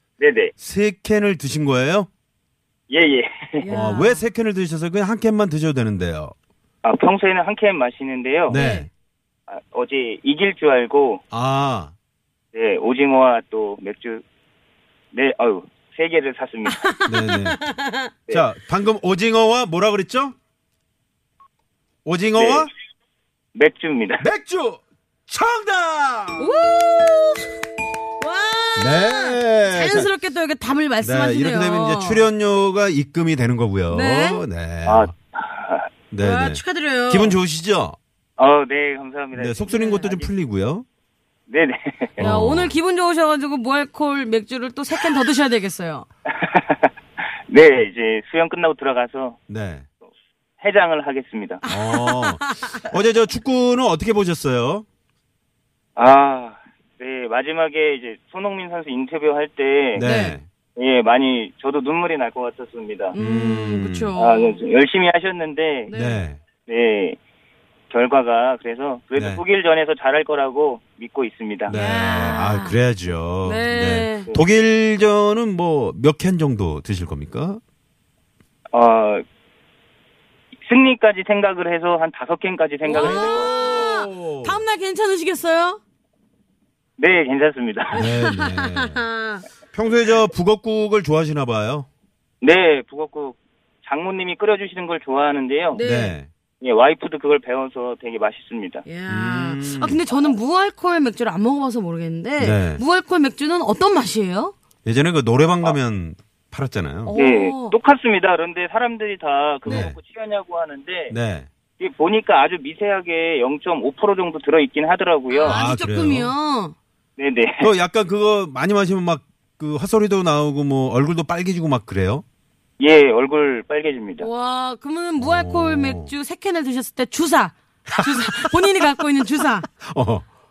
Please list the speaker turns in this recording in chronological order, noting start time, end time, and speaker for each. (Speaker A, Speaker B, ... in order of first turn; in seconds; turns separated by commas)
Speaker A: 0.2-0.5, Speaker B: 0.6-2.1, Speaker A: 2.9-3.7, Speaker C: 3.6-4.2, Speaker B: 3.7-6.3, Speaker A: 6.8-8.6, Speaker B: 8.5-8.9, Speaker C: 8.5-8.9, Speaker A: 9.5-11.2, Speaker B: 11.3-11.9, Speaker A: 12.5-14.2, Speaker A: 15.1-16.9, Speaker C: 16.8-18.1, Speaker B: 17.1-17.6, Speaker B: 18.3-20.3, Speaker B: 22.0-22.7, Speaker A: 22.4-22.7, Speaker A: 23.5-24.2, Speaker B: 24.2-26.6, Speaker C: 26.4-27.6, Speaker C: 28.1-32.2, Speaker B: 28.8-30.1, Speaker B: 31.0-35.1, Speaker C: 33.9-34.4, Speaker A: 34.9-35.9, Speaker B: 36.1-38.0, Speaker C: 36.2-37.4, Speaker A: 38.4-40.3, Speaker B: 39.3-40.9, Speaker C: 39.7-40.0, Speaker A: 41.5-42.2, Speaker B: 42.2-42.7, Speaker C: 42.2-46.1, Speaker A: 46.3-46.9, Speaker A: 47.5-49.4, Speaker B: 49.5-49.9, Speaker A: 50.6-51.6, Speaker C: 51.6-52.8, Speaker B: 51.6-54.9, Speaker A: 56.0-60.1, Speaker B: 60.0-60.5, Speaker C: 60.0-60.4, Speaker A: 60.8-63.1, Speaker C: 63.1-64.6, Speaker B: 63.1-64.1, Speaker A: 64.2-65.9, Speaker C: 65.9-66.3, Speaker B: 65.9-66.4, Speaker A: 66.7-67.2, Speaker A: 67.9-71.7, Speaker B: 69.2-69.4, Speaker B: 71.7-77.6, Speaker C: 71.7-72.8, Speaker C: 73.4-74.3, Speaker A: 78.7-79.2, Speaker A: 80.6-83.8, Speaker C: 82.8-85.8, Speaker B: 82.9-84.6, Speaker A: 87.0-88.0, Speaker B: 87.9-89.0, Speaker C: 87.9-89.4, Speaker B: 89.7-91.9, Speaker A: 92.4-95.8, Speaker C: 95.7-96.2, Speaker B: 95.8-96.3, Speaker A: 96.6-98.8, Speaker C: 98.8-104.5, Speaker B: 99.1-100.0, Speaker B: 102.4-102.8, Speaker B: 104.8-107.2, Speaker C: 107.0-107.8, Speaker A: 107.2-111.1, Speaker B: 109.7-110.0, Speaker B: 111.1-111.5, Speaker A: 111.8-115.6, Speaker C: 115.3-116.7, Speaker B: 115.4-116.3, Speaker A: 117.2-117.7, Speaker B: 117.6-122.2, Speaker A: 122.8-124.3, Speaker C: 124.2-129.7, Speaker B: 125.2-126.1, Speaker B: 128.1-128.5, Speaker B: 129.8-130.3